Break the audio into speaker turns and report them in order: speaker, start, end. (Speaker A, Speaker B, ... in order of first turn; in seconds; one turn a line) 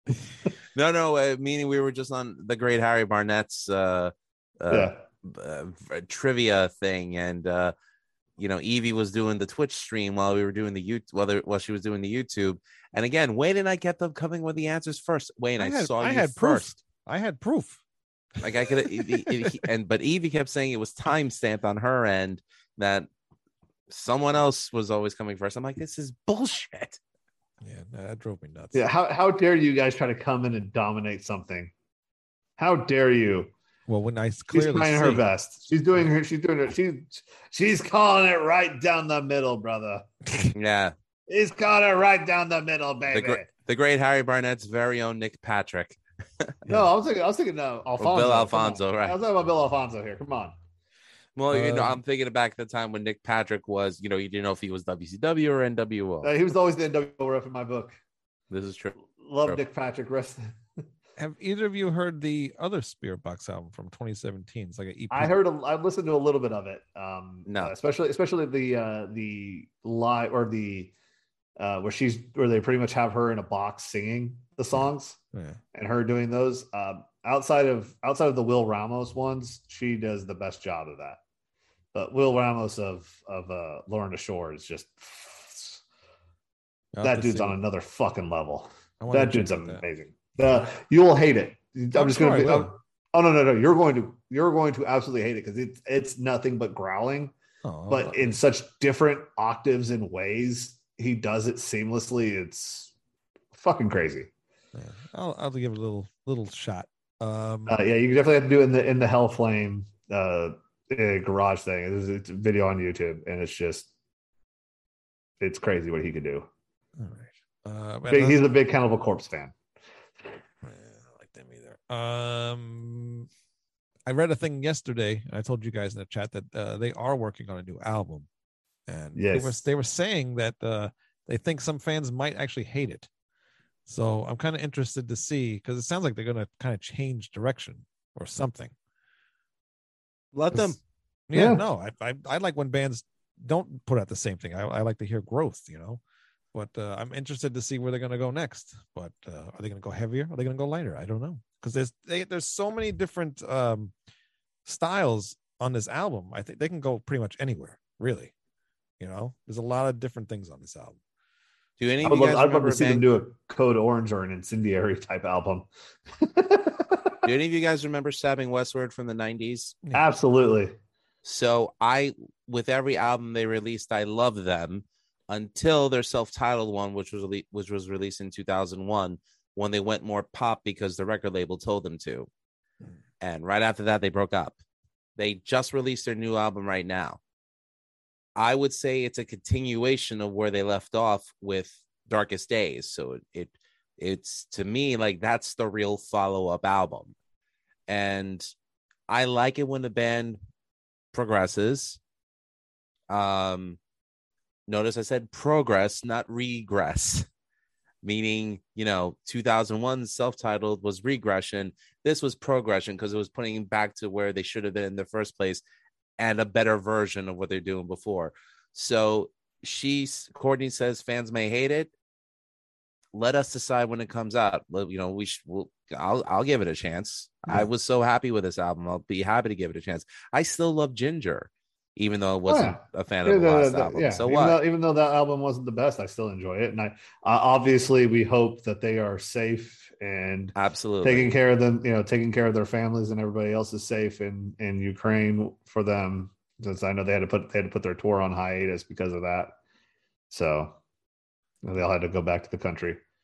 Speaker A: 0.7-7.7
Speaker B: 4.7-5.0
Speaker A: 8.4-16.8
Speaker C: 15.6-17.8
Speaker A: 18.4-23.1
Speaker C: 18.8-19.5
Speaker A: 23.9-27.0
Speaker C: 27.6-28.8
Speaker B: 28.7-31.7
Speaker B: 32.6-33.5
Speaker C: 33.9-35.2
Speaker B: 34.5-40.1
Speaker A: 40.5-40.9
Speaker B: 41.3-43.5
Speaker A: 43.1-46.5
Speaker B: 46.6-50.5
Speaker A: 48.0-49.2
Speaker A: 51.4-56.3
Speaker C: 51.5-52.0
Speaker B: 56.2-58.0
Speaker A: 58.5-59.6
Speaker B: 59.2-60.5
Speaker C: 61.2-65.3
Speaker B: 65.1-70.9
Speaker A: 67.5-67.7
Speaker B: 71.6-75.2
Speaker C: 75.3-75.6
Speaker B: 75.7-81.2
Speaker B: 81.9-85.8
Speaker C: 86.9-87.6
Speaker B: 87.0-97.3
Speaker C: 89.0-89.8
Speaker C: 91.9-92.7
Speaker C: 97.6-98.4
Speaker B: 97.9-102.9
Speaker B: 103.5-104.3
Speaker C: 104.7-107.8
Speaker B: 107.7-113.9
Speaker B: 115.4-116.5
Speaker C: 117.0-118.5
Speaker B: 118.1-119.5
Speaker C: 120.6-123.3
Speaker C: 124.0-128.3
Speaker C: 128.9-133.1
Speaker B: 129.2-129.6
Speaker C: 133.9-138.7
Speaker A: 140.3-140.8
Speaker C: 141.3-146.0
Speaker B: 141.3-141.6
Speaker C: 146.5-153.9
Speaker C: 154.6-158.3
Speaker C: 159.0-161.0
Speaker A: 161.8-163.1
Speaker B: 162.0-165.7
Speaker B: 166.2-167.1
Speaker A: 167.2-169.7
Speaker B: 169.9-170.7
Speaker A: 171.2-182.3
Speaker A: 183.2-184.6
Speaker A: 185.2-187.2
Speaker A: 188.4-197.1
Speaker A: 197.9-198.5
Speaker A: 199.1-200.4
Speaker A: 201.1-202.0
Speaker A: 203.1-203.8
Speaker A: 204.7-207.3
Speaker A: 208.0-215.6
Speaker A: 216.2-221.9
Speaker A: 223.1-234.6
Speaker B: 232.5-249.5
Speaker A: 240.6-241.3
Speaker B: 250.3-250.7
Speaker B: 251.6-253.0